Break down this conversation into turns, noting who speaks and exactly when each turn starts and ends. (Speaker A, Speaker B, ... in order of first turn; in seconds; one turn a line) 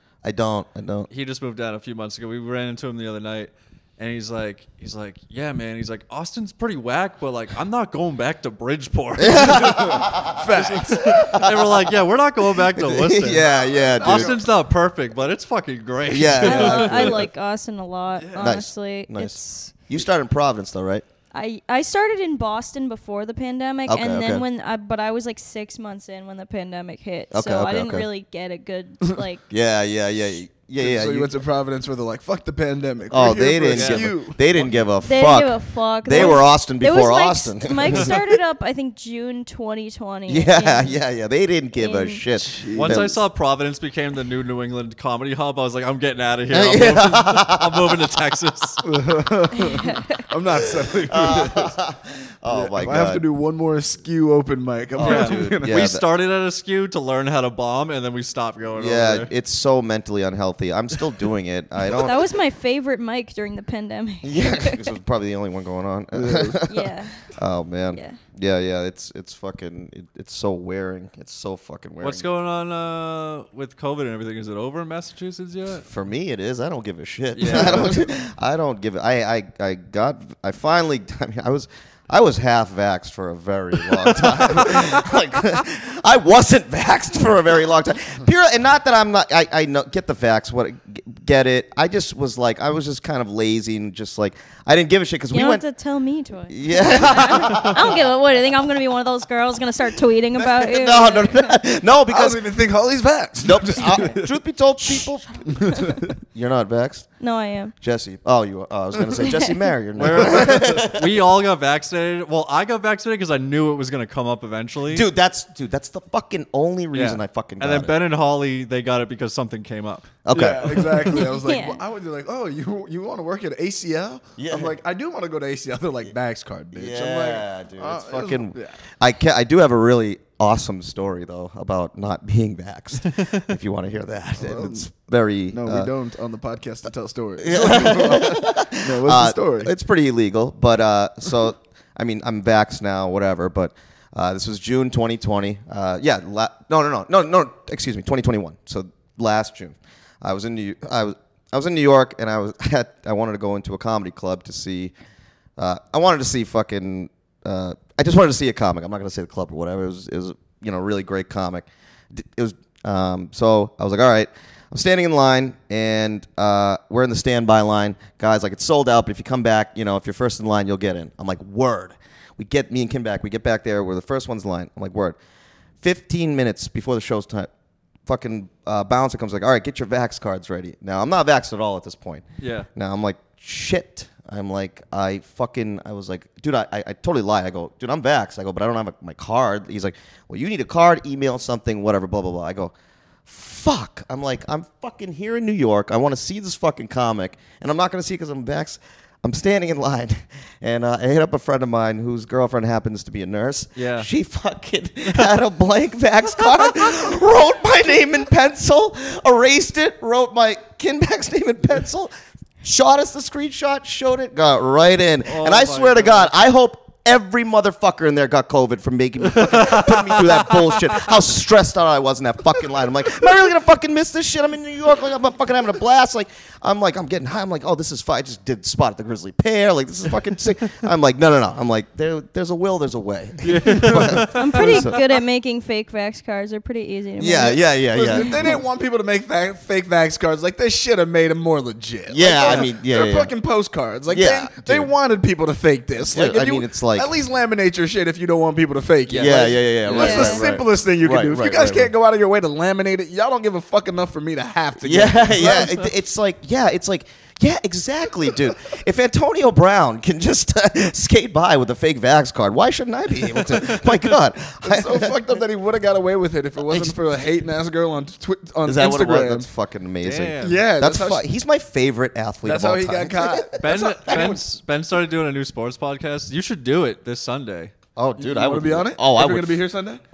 Speaker A: 0.2-1.1
Speaker B: 1.1-13.5
Speaker A: 9.2-10.3
Speaker C: 9.6-11.2
Speaker A: 11.1-11.9
Speaker A: 12.6-14.4
Speaker C: 13.3-14.4
Speaker B: 14.0-17.2
Speaker A: 16.1-17.3
Speaker D: 16.4-19.7
Speaker C: 18.2-18.5
Speaker A: 18.4-21.0
Speaker D: 21.3-29.4
Speaker A: 23.9-24.4
Speaker A: 27.3-28.1
Speaker A: 29.5-31.3
Speaker C: 30.8-34.5
Speaker A: 33.1-38.2
Speaker B: 33.7-34.8
Speaker D: 35.0-41.0
Speaker A: 40.3-43.2
Speaker D: 41.8-42.2
Speaker C: 42.4-43.0
Speaker B: 42.7-48.9
Speaker A: 46.5-47.9
Speaker C: 48.8-51.8
Speaker D: 49.5-50.2
Speaker A: 51.0-53.2
Speaker C: 52.5-55.8
Speaker A: 54.9-56.0
Speaker B: 55.0-59.3
Speaker A: 58.8-62.2
Speaker D: 61.9-64.9
Speaker A: 64.2-72.2
Speaker C: 66.1-66.6
Speaker D: 66.7-67.3
Speaker B: 72.0-75.8
Speaker A: 75.8-95.6
Speaker B: 77.3-78.1
Speaker D: 95.3-101.6
Speaker A: 96.5-98.1
Speaker A: 100.4-102.4
Speaker C: 102.1-104.3
Speaker A: 103.4-105.8
Speaker C: 105.5-106.1
Speaker A: 106.3-107.1
Speaker D: 107.2-107.7
Speaker A: 107.8-111.2
Speaker D: 109.3-109.5
Speaker B: 110.0-115.1
Speaker C: 110.0-110.8
Speaker A: 114.9-117.9
Speaker B: 116.9-120.1
Speaker A: 120.2-121.2
Speaker C: 120.3-128.8
Speaker D: 121.1-121.8
Speaker A: 124.4-124.8
Speaker A: 126.7-135.9
Speaker B: 133.1-133.4
Speaker C: 134.4-134.9
Speaker C: 135.5-139.7
Speaker A: 137.4-154.9
Speaker A: 155.6-175.2
Speaker A: 175.8-177.5
Speaker A: 178.1-182.2
Speaker B: 182.4-182.7
Speaker A: 182.8-192.7
Speaker A: 193.3-212.1
Speaker B: 203.8-204.1
Speaker A: 212.6-235.0
Speaker B: 215.2-216.3
Speaker B: 219.3-221.0
Speaker B: 233.4-234.9
Speaker C: 233.7-234.1
Speaker D: 234.3-238.5
Speaker A: 237.2-238.6
Speaker C: 237.9-255.8
Speaker A: 242.1-243.3
Speaker B: 242.4-242.7
Speaker A: 244.1-244.9
Speaker A: 246.1-247.1
Speaker B: 249.1-249.4
Speaker A: 249.2-251.9
Speaker D: 249.9-250.5
Speaker A: 254.8-265.4
Speaker B: 255.4-255.9
Speaker C: 264.6-269.5
Speaker A: 266.7-267.0
Speaker A: 268.6-274.3
Speaker B: 270.0-270.6
Speaker C: 270.4-271.2
Speaker C: 272.4-274.4
Speaker B: 273.6-277.7
Speaker A: 278.0-279.6
Speaker C: 278.2-280.0